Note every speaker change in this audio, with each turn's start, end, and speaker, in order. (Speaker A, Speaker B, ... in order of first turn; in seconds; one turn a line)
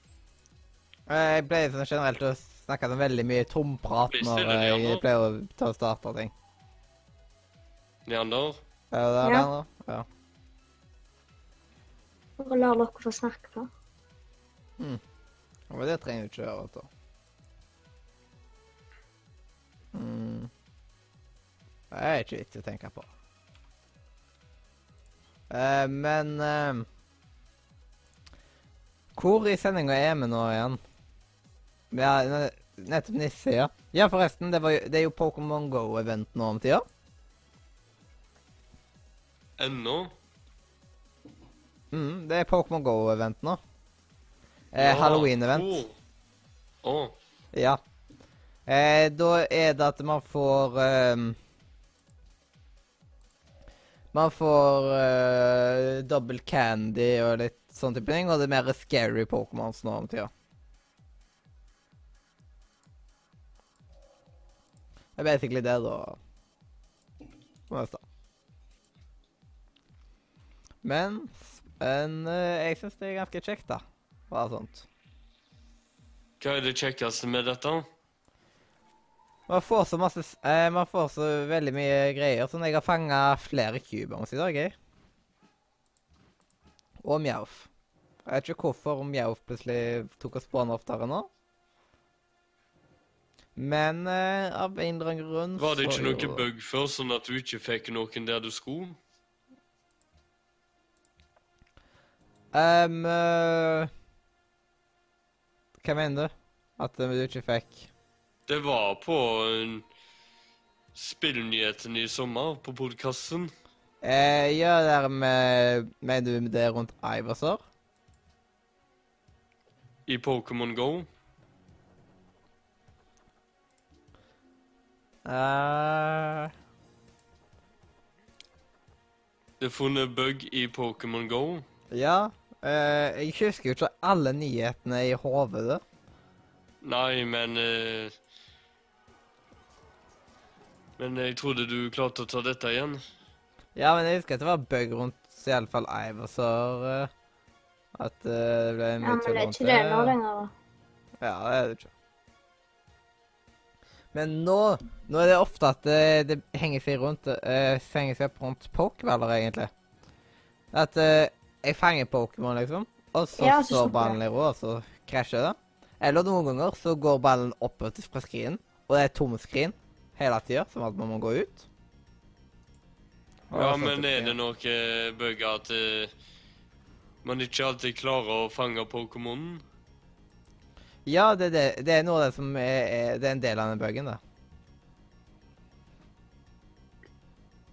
Speaker A: 1.1-6.3
Speaker B: 4.1-5.0
Speaker B: 8.1-8.6
Speaker A: 8.9-10.1
Speaker C: 9.2-9.5
Speaker C: 12.4-13.7
Speaker A: 15.7-16.9
Speaker A: 19.9-20.5
Speaker A: 21.9-23.1
Speaker A: 25.5-26.9
Speaker A: 29.1-30.8
Speaker A: 31.9-36.9
Speaker B: 39.6-40.1
Speaker A: 41.9-43.6
Speaker A: 44.7-45.8
Speaker B: 44.8-46.0
Speaker B: 46.8-47.1
Speaker A: 47.5-47.8
Speaker A: 48.7-51.4
Speaker A: 54.1-60.3
Speaker A: 65.2-66.2
Speaker A: 67.7-68.0
Speaker A: 70.8-74.9
Speaker B: 76.4-77.8
Speaker A: 79.5-84.7
Speaker A: 87.0-87.7
Speaker A: 88.3-91.3
Speaker A: 93.6-96.5
Speaker B: 95.6-99.0
Speaker A: 102.5-103.9
Speaker A: 105.8-107.9
Speaker B: 108.5-109.8
Speaker B: 111.0-113.5
Speaker A: 114.0-117.6
Speaker B: 120.1-121.1
Speaker A: 125.3-126.5
Speaker B: 129.6-131.6
Speaker A: 131.9-135.8
Speaker B: 136.8-138.1
Speaker B: 141.0-143.0
Speaker A: 143.8-147.1
Speaker A: 148.0-150.2
Speaker C: 149.0-150.5
Speaker A: 151.2-151.9
Speaker A: 154.1-159.7
Speaker A: 160.7-171.7
Speaker C: 163.4-164.2
Speaker A: 173.5-174.4
Speaker B: 173.5-176.1
Speaker B: 177.2-179.6
Speaker A: 181.1-184.2